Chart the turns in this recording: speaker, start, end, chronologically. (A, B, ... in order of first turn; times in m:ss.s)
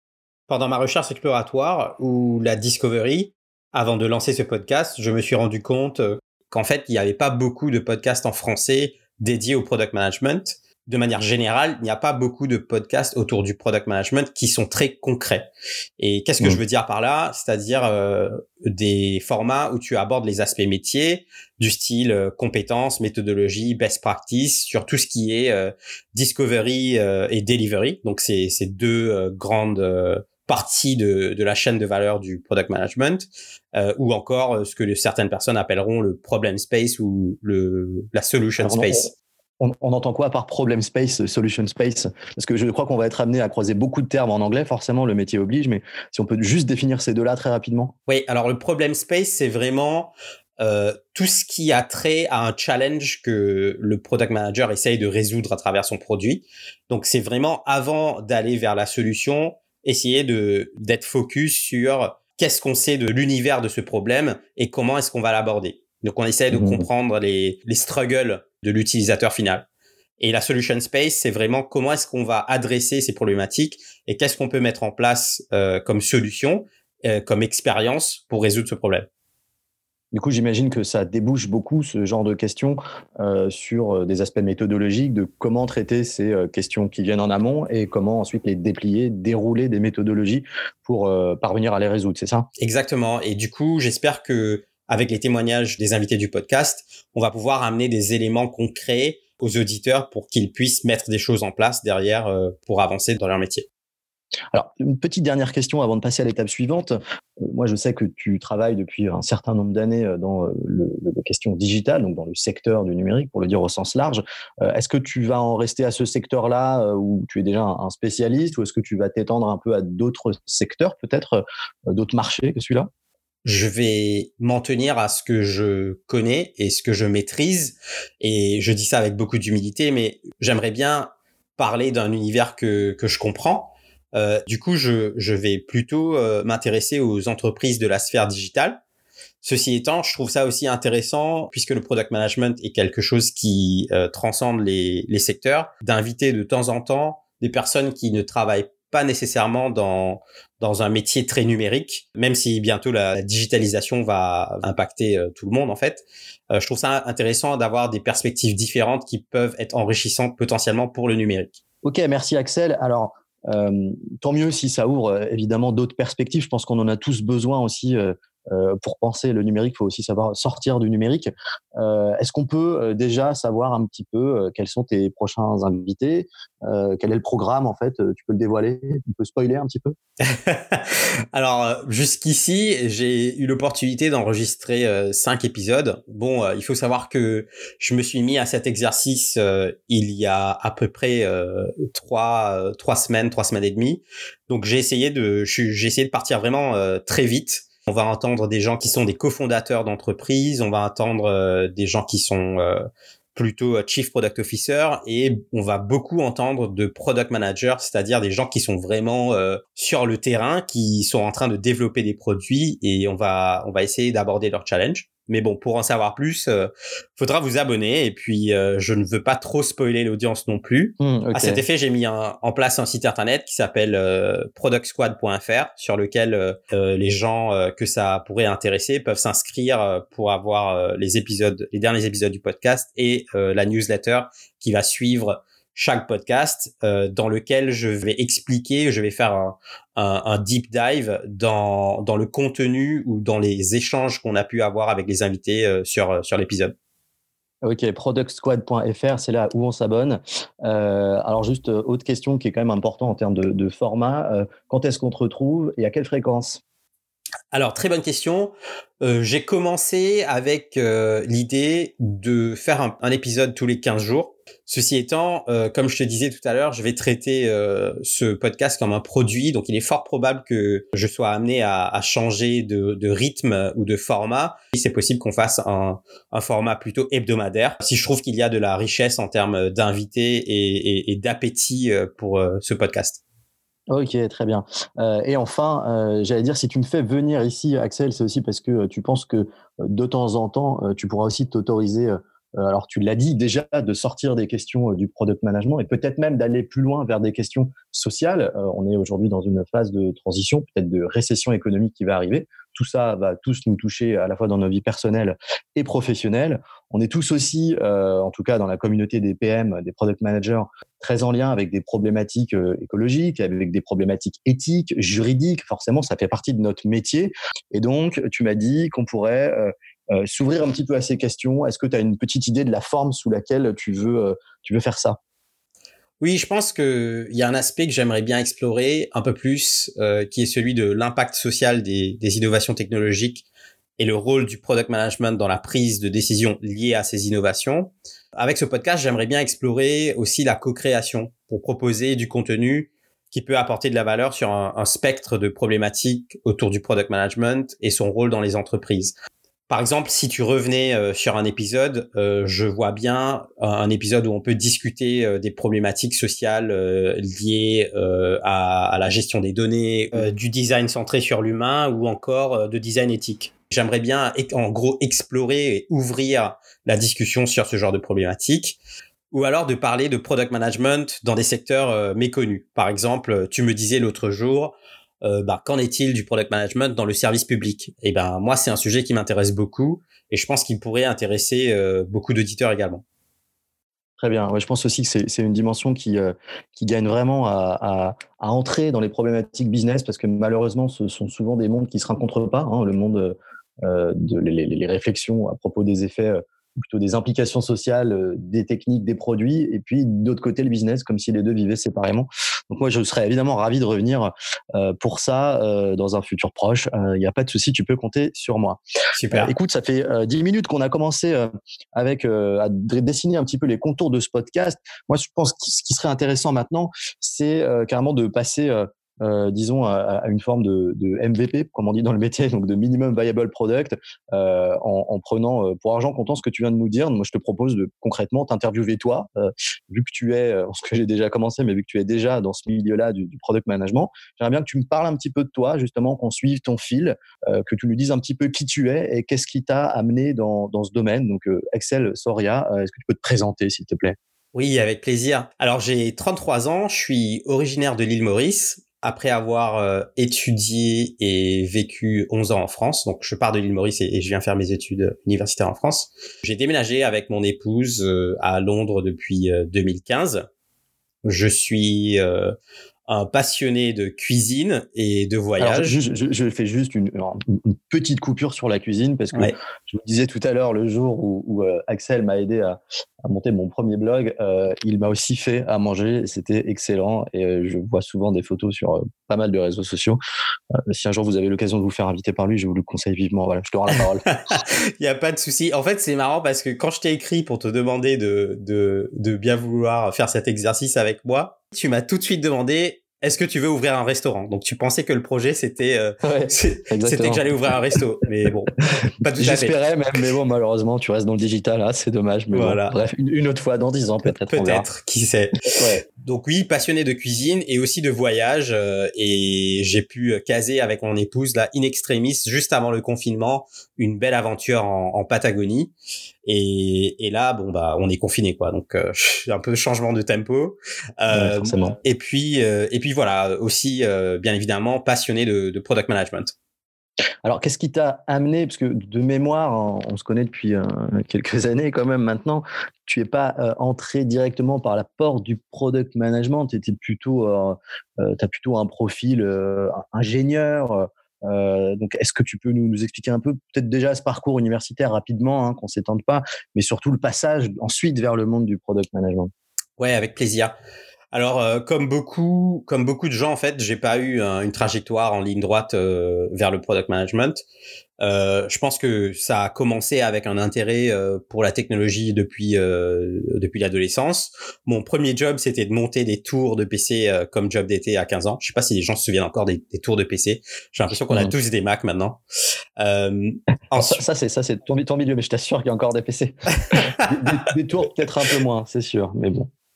0:00.5-0:15.5 A
0:16.0-0:39.1 A
0:38.6-0:39.1 B
0:39.6-0:47.9 B
0:48.1-1:09.7 A
1:06.5-1:06.9 B
1:10.2-1:19.1 A
1:20.1-1:32.5 B
1:32.6-1:43.7 A
1:44.5-2:02.9 B
2:03.4-2:18.8 A
2:19.4-2:41.6 A
2:41.8-3:00.0 B
3:00.2-3:22.8 A
3:23.4-4:06.7 A
3:41.0-3:41.6 B
4:07.6-4:16.6 B
4:17.5-4:43.2 A
4:43.9-5:25.2 B
5:26.2-5:33.4 A
5:34.0-5:49.1 A
5:49.7-6:08.8 A
6:09.3-6:23.0 A
6:24.2-6:48.8 B
6:49.2-6:49.5 A
6:49.3-7:24.2 B
7:24.6-7:40.4 A
7:41.2-7:42.6 A
7:43.1-7:46.0 A
7:45.6-8:00.2 B
8:00.9-8:04.2 B
8:04.3-8:19.8 A
8:16.2-8:17.7 B
8:19.4-8:24.9 B
8:22.5-8:22.9 A
8:24.2-8:35.9 A
8:25.7-8:26.0 B
8:36.4-8:46.6 A
8:41.3-8:42.0 B
8:47.4-9:09.5 B
9:10.0-9:10.7 A
9:11.3-9:17.6 A
9:18.2-9:32.4 A
9:33.0-9:34.2 A
9:34.0-9:39.7 B
9:36.9-9:37.3 A